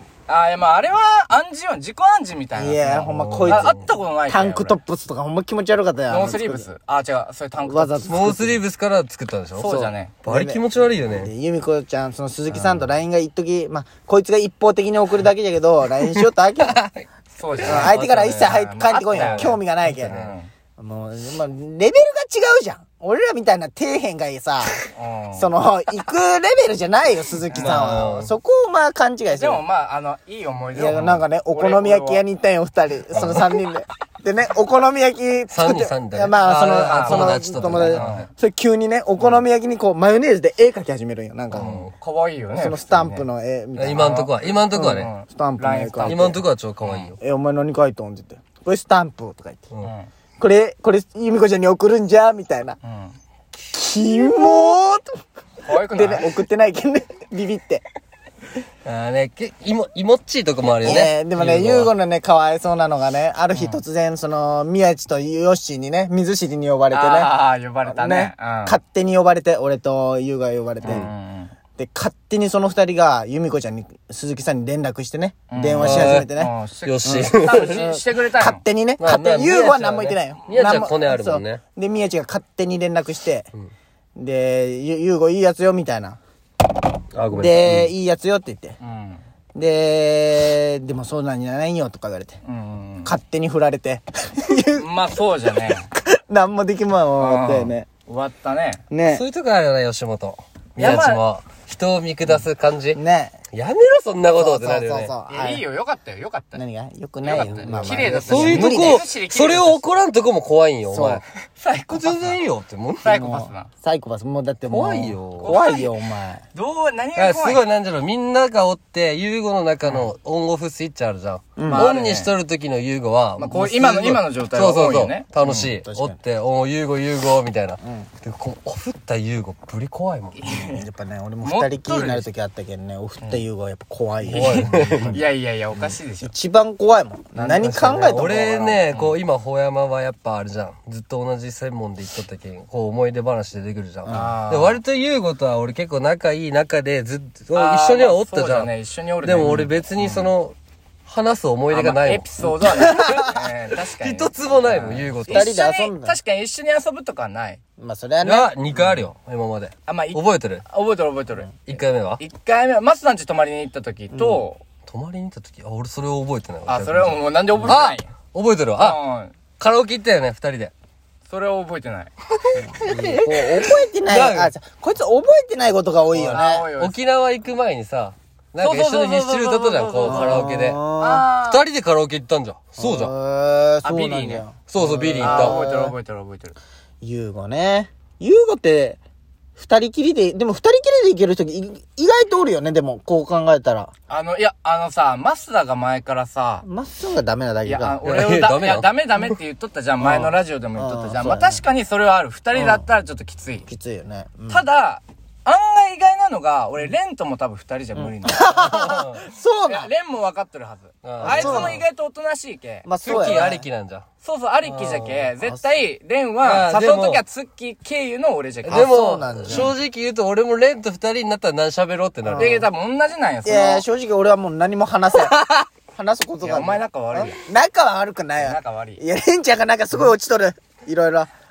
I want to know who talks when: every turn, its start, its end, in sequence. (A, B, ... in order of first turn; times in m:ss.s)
0:00.3-0:04.8 A
0:02.6-0:06.7 B
0:03.0-0:03.9 C
0:06.1-0:08.1 A
0:07.6-0:08.6 B
0:08.0-0:11.3 C
0:09.6-0:10.2 A
0:09.7-0:16.9 B
0:12.5-0:12.9 C
0:17.3-0:20.5 A
0:17.6-0:20.3 C
0:17.6-0:20.2 B
0:20.8-0:29.6 B
0:24.9-0:25.6 A
0:27.5-0:28.1 A
0:27.6-0:28.3 C
0:29.3-0:32.2 A
0:30.7-0:41.7 B
0:33.1-0:33.5 C
0:35.5-0:38.2 C
0:36.6-0:38.3 A
0:39.2-0:39.4 A
0:41.5-0:41.9 C
0:41.5-0:43.2 A
0:42.5-0:46.4 B
0:43.8-0:45.1 C
0:44.0-0:46.3 A
0:46.0-0:47.2 C
0:46.8-0:47.1 A
0:47.2-0:49.7 B
0:49.8-0:50.1 A
0:50.4-0:52.8 B
0:52.8-0:53.2 A
0:53.6-0:55.2 B
0:55.6-0:56.3 A
0:55.8-0:57.8 B
0:58.8-1:01.9 C
1:00.8-1:11.1 B
1:01.4-1:01.6 A
1:03.5-1:03.8 A
1:06.9-1:08.8 A
1:10.8-1:11.5 A
1:11.8-1:16.5 B
1:15.5-1:18.6 A
1:15.8-1:16.3 C
1:16.8-1:17.8 C
1:17.0-1:23.5 B
1:19.0-1:21.6 C
1:24.2-1:26.2 B
1:27.1-1:27.9 C
1:27.3-1:28.8 B
1:28.8-1:29.2 A
1:29.5-1:32.4 B
1:32.4-1:33.1 A
1:33.0-1:34.9 B
1:34.8-1:35.9 A
1:35.5-1:37.8 B
1:37.2-1:38.8 A
1:38.9-1:39.2 B
1:39.0-1:43.0 C
1:40.8-1:41.2 A
1:42.2-1:43.4 B
1:43.5-1:45.1 C
1:44.3-1:45.6 B
1:45.3-1:46.6 A
1:46.5-1:49.0 B
1:47.2-1:50.0 A
1:47.7-1:51.2 C
1:50.9-1:51.2 B
1:51.4-1:52.4 A
1:51.9-1:53.2 C
1:53.0-1:53.7 A
1:53.1-1:56.4 B
1:54.7-1:55.5 C
1:55.4-1:57.6 A
1:57.2-2:10.4 C
2:01.6-2:01.8 B
2:01.6-2:02.3 A
2:03.4-2:05.7 A
2:05.5-2:06.2 B
2:07.8-2:08.1 B
2:10.3-2:10.8 A
2:10.5-2:18.8 B
2:11.4-2:12.3 A
2:14.2-2:15.2 C
2:14.2-2:16.3 A
2:17.3-2:30.5 C
2:18.8-2:19.2 A
2:24.0-2:24.3 B
2:24.1-2:24.8 A
2:27.5-2:30.3 A
2:31.0-2:32.3 C
2:31.7-2:37.6 A
2:32.4-2:33.4 B
2:34.0-2:35.5 C
2:34.8-2:36.2 B
2:37.8-2:39.0 B
2:38.2-2:40.6 C
2:39.8-2:41.7 A
2:41.7-2:42.2 C
2:42.2-2:44.6 A
2:44.1-2:44.4 B
2:44.8-2:49.0 C
2:46.6-2:48.1 A
2:48.8-2:49.4 A
2:49.6-2:50.7 C
2:51.3-2:52.1 A
2:52.4-2:54.5 C
2:52.6-2:56.6 B
2:56.1-3:00.8 C
2:56.3-2:57.0 A
2:58.6-3:01.6 A
3:00.0-3:01.3 B
3:01.4-3:03.1 C
3:02.8-3:06.0 B
3:03.8-3:04.5 A
3:04.7-3:05.6 C
3:05.2-3:06.6 A
3:07.0-3:09.0 B
3:09.6-3:13.9 B
3:14.1-3:16.6 A
3:16.6-3:18.0 B
3:17.6-3:23.7 A
3:18.0-3:18.9 C
3:20.0-3:21.6 B
3:22.5-3:22.8 B
3:23.7-3:24.6 B
3:24.5-3:28.8 A
3:27.9-3:29.9 B
3:28.6-3:29.2 C
3:29.7-3:33.4 A
3:31.0-3:31.8 C
3:31.2-3:31.8 B
3:32.8-3:33.6 B
3:33.0-3:34.0 C
3:34.2-3:38.9 A
3:34.8-3:35.0 C
3:34.8-3:35.6 B
3:36.4-3:37.2 C
3:38.6-3:42.5 C
3:38.7-3:39.7 B
3:42.2-3:42.7 B
3:42.3-3:43.8 A
3:43.4-3:51.3 B
3:46.4-3:47.4 A
3:48.4-3:49.0 A